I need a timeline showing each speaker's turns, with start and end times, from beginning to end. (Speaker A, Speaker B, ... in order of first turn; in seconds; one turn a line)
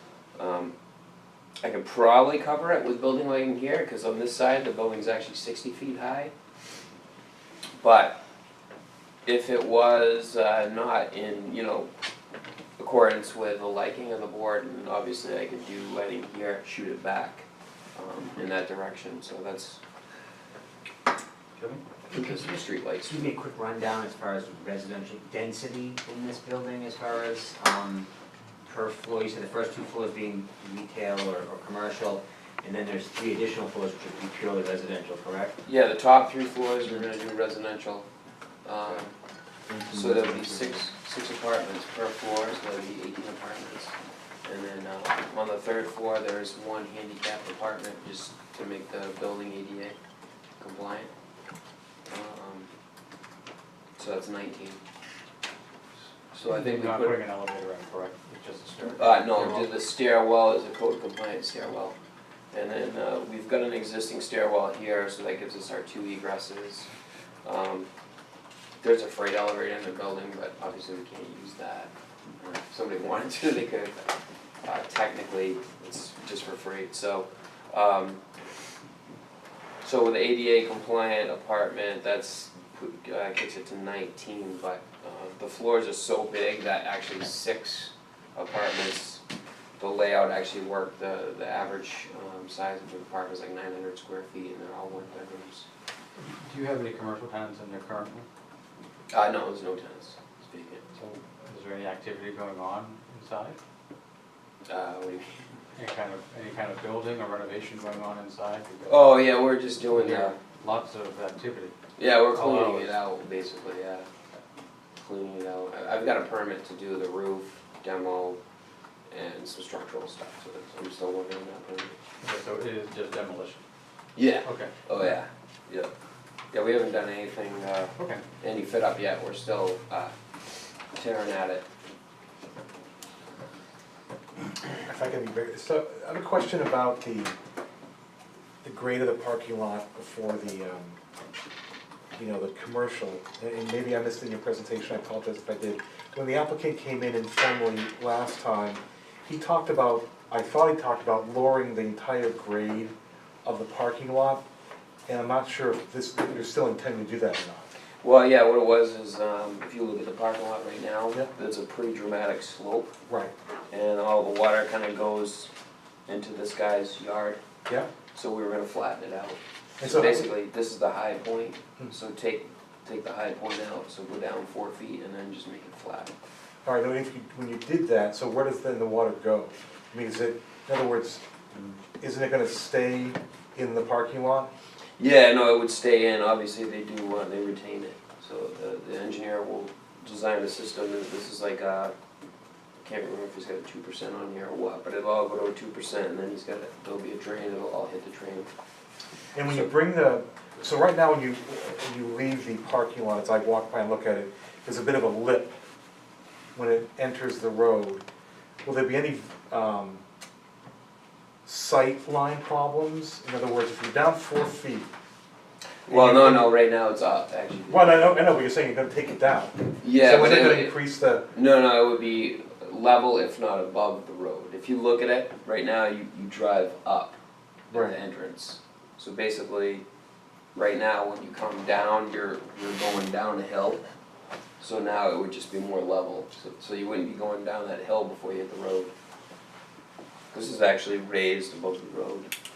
Speaker A: 0.4-0.7
Speaker A: 1.6-6.3
Speaker A: 7.8-8.2
Speaker A: 9.3-11.9
Speaker A: 12.8-19.8
Speaker A: 22.1-23.2
Speaker B: 23.1-28.1
Speaker B: 28.6-35.6
Speaker A: 35.6-38.1
Speaker A: 38.6-39.1
Speaker B: 39.7-40.7
Speaker A: 39.9-50.0
Speaker A: 50.6-51.1
Speaker A: 52.1-52.7
Speaker A: 54.0-54.8
Speaker A: 56.3-57.2
Speaker C: 56.5-59.7
Speaker A: 59.0-62.0
Speaker A: 62.5-66.9
Speaker A: 67.5-67.9
Speaker A: 68.8-74.0
Speaker A: 74.6-78.2
Speaker A: 79.8-89.2
Speaker A: 89.8-95.7
Speaker C: 96.2-98.3
Speaker A: 99.1-100.8
Speaker C: 101.0-103.6
Speaker A: 104.7-105.4
Speaker C: 105.8-109.0
Speaker A: 108.9-110.3
Speaker C: 109.9-111.7
Speaker A: 112.0-114.1
Speaker C: 112.3-113.0
Speaker A: 115.0-118.4
Speaker A: 119.1-122.0
Speaker C: 122.2-123.6
Speaker A: 124.2-125.9
Speaker C: 124.5-124.7
Speaker A: 126.5-130.1
Speaker C: 128.0-128.2
Speaker A: 130.9-131.7
Speaker D: 134.8-137.3
Speaker D: 138.6-141.0
Speaker D: 142.2-152.9
Speaker D: 153.4-154.4
Speaker D: 155.1-157.7
Speaker A: 158.0-162.9
Speaker D: 163.1-163.3
Speaker A: 163.7-165.5
Speaker A: 166.1-167.4
Speaker A: 168.1-176.1
Speaker D: 169.8-170.3
Speaker D: 176.7-181.2
Speaker D: 182.0-184.5
Speaker A: 185.0-191.9
Speaker A: 192.8-198.5
Speaker D: 199.3-205.6
Speaker D: 206.6-208.0
Speaker D: 208.6-210.0
Speaker D: 211.4-214.9
Speaker A: 215.9-218.2
Speaker D: 215.9-216.5
Speaker D: 217.7-221.3
Speaker A: 219.8-220.8
Speaker A: 221.3-227.2
Speaker A: 227.7-229.8
Speaker D: 227.7-228.0
Speaker A: 230.6-233.8
Speaker A: 234.6-238.9
Speaker A: 240.3-242.3